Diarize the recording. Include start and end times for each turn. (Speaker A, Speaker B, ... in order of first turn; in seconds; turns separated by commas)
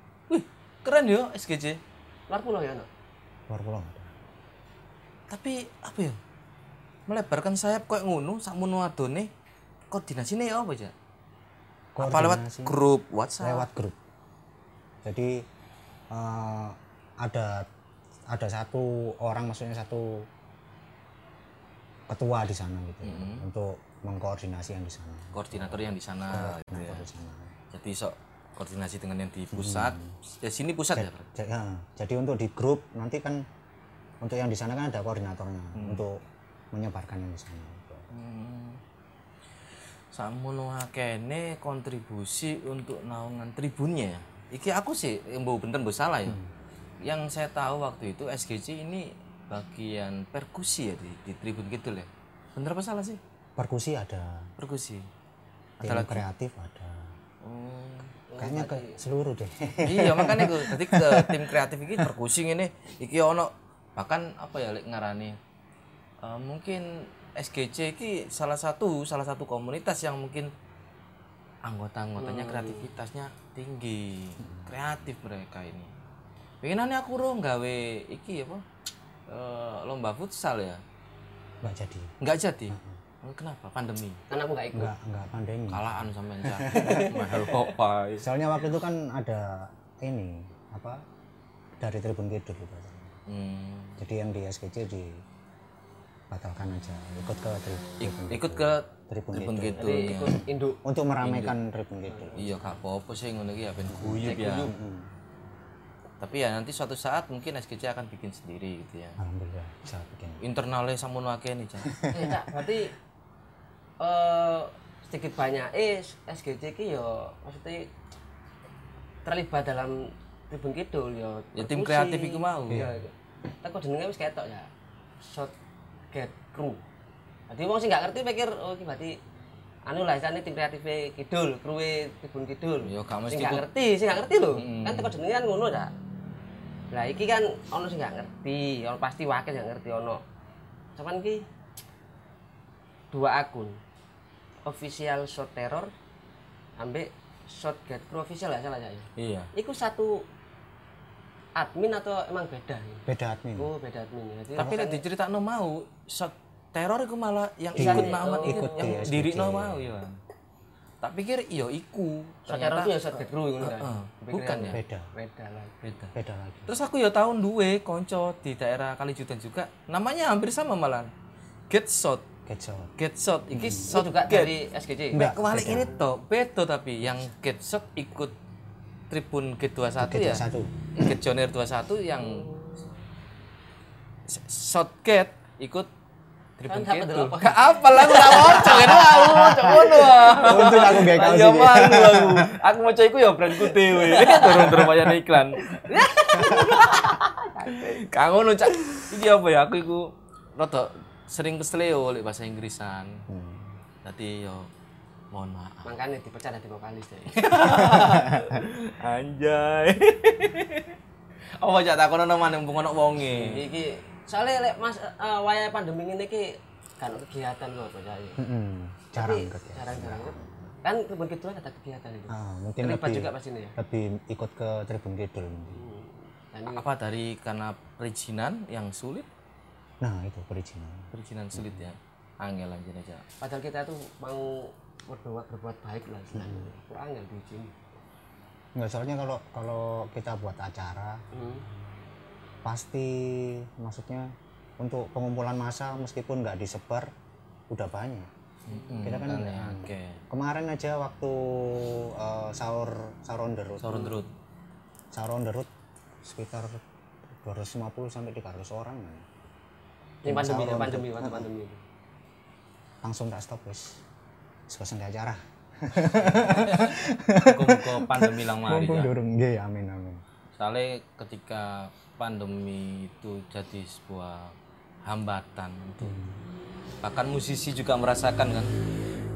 Speaker A: 0.3-1.8, Speaker B: 2.3-2.9, Speaker C: 3.5-4.1, Speaker A: 5.3-6.2, Speaker A: 7.1-9.3, Speaker A: 9.9-10.9, Speaker C: 11.9-12.8, Speaker A: 12.0-13.7, Speaker C: 13.4-14.0, Speaker C: 15.0-15.4, Speaker C: 16.1-17.7, Speaker C: 18.3-20.3, Speaker C: 22.1-27.5, Speaker A: 23.0-23.4, Speaker A: 25.3-27.1, Speaker A: 27.7-31.2, Speaker C: 29.5-30.1, Speaker C: 30.9-33.5, Speaker C: 34.2-36.2, Speaker A: 35.8-36.0, Speaker C: 36.7-38.1, Speaker A: 38.1-38.8, Speaker A: 40.1-46.4, Speaker A: 47.0-53.2, Speaker C: 53.6-54.5, Speaker A: 54.6-55.1, Speaker C: 55.8-57.1, Speaker A: 55.8-56.2, Speaker A: 57.4-58.1, Speaker B: 58.3-59.0, Speaker C: 58.4-62.1, Speaker A: 59.8-65.4, Speaker A: 66.2-70.5, Speaker A: 71.6-75.9, Speaker B: 72.2-72.9, Speaker C: 74.4-74.7, Speaker A: 76.6-78.6, Speaker A: 79.3-80.8, Speaker C: 81.6-82.1, Speaker A: 82.2-84.2, Speaker C: 82.7-83.0, Speaker B: 84.3-84.9, Speaker C: 84.7-87.2, Speaker A: 85.7-88.2, Speaker B: 86.7-87.5, Speaker C: 88.2-91.0, Speaker C: 91.8-93.1, Speaker A: 93.3-94.0, Speaker C: 94.0-95.2, Speaker C: 96.3-100.2, Speaker A: 98.0-100.4, Speaker B: 99.8-100.8, Speaker C: 100.8-102.6, Speaker A: 101.2-101.6, Speaker B: 102.1-102.6, Speaker A: 102.4-104.7, Speaker C: 103.9-105.1, Speaker B: 104.2-104.7, Speaker A: 106.2-109.2, Speaker C: 109.2-110.4, Speaker A: 110.4-111.9, Speaker C: 111.8-112.4, Speaker B: 112.1-112.9, Speaker B: 114.0-117.9, Speaker B: 119.2-123.1, Speaker A: 121.6-122.9, Speaker C: 122.7-123.0, Speaker B: 123.6-124.7, Speaker B: 125.2-125.5, Speaker B: 126.1-126.8, Speaker B: 127.5-129.2, Speaker B: 129.9-135.9, Speaker A: 132.8-133.6, Speaker A: 134.6-135.1, Speaker B: 136.9-140.2, Speaker B: 141.0-141.4, Speaker B: 143.1-143.8, Speaker B: 144.6-145.9, Speaker B: 146.8-150.2, Speaker A: 149.2-149.5, Speaker B: 151.6-153.1, Speaker C: 153.1-153.7, Speaker B: 153.6-155.0, Speaker A: 154.6-160.2, Speaker B: 157.8-159.0, Speaker C: 157.8-159.9, Speaker A: 161.0-164.8, Speaker B: 162.5-165.8, Speaker C: 164.7-165.1, Speaker A: 165.8-166.1, Speaker C: 166.1-166.7, Speaker A: 166.7-171.1, Speaker A: 171.7-172.2, Speaker C: 172.5-172.9, Speaker A: 173.0-174.5, Speaker C: 173.5-173.9, Speaker B: 173.9-175.8, Speaker C: 175.1-175.9, Speaker A: 175.1-178.3, Speaker A: 179.1-180.4, Speaker C: 180.0-180.7, Speaker A: 181.0-182.5, Speaker B: 182.2-182.8, Speaker A: 184.3-185.9, Speaker A: 186.6-195.6, Speaker B: 186.7-191.3, Speaker C: 189.2-192.5, Speaker B: 193.9-194.9, Speaker B: 195.7-198.0, Speaker A: 196.4-197.1, Speaker A: 197.7-203.2, Speaker C: 203.3-203.7, Speaker A: 204.0-204.7, Speaker A: 205.3-205.9, Speaker B: 205.8-207.8, Speaker A: 207.3-210.9, Speaker C: 207.9-208.4, Speaker A: 211.6-213.6, Speaker B: 213.3-218.4, Speaker C: 218.4-220.7, Speaker B: 219.1-223.8, Speaker C: 222.3-225.8, Speaker B: 225.7-226.8, Speaker A: 226.7-229.3, Speaker C: 230.0-231.8, Speaker A: 231.1-233.2, Speaker B: 233.4-237.8, Speaker C: 236.3-236.7, Speaker C: 238.8-241.2, Speaker B: 241.3-241.7, Speaker C: 242.6-247.1, Speaker C: 247.7-248.3, Speaker A: 248.7-250.2, Speaker B: 248.7-249.0, Speaker C: 249.0-254.2, Speaker A: 253.8-254.3, Speaker C: 255.1-255.7, Speaker C: 256.2-259.2, Speaker B: 260.2-261.8, Speaker C: 260.2-261.5, Speaker C: 263.0-264.0, Speaker C: 264.7-270.2, Speaker A: 266.2-269.1, Speaker A: 270.6-274.5, Speaker A: 275.1-276.1, Speaker C: 276.0-276.4, Speaker A: 277.0-278.7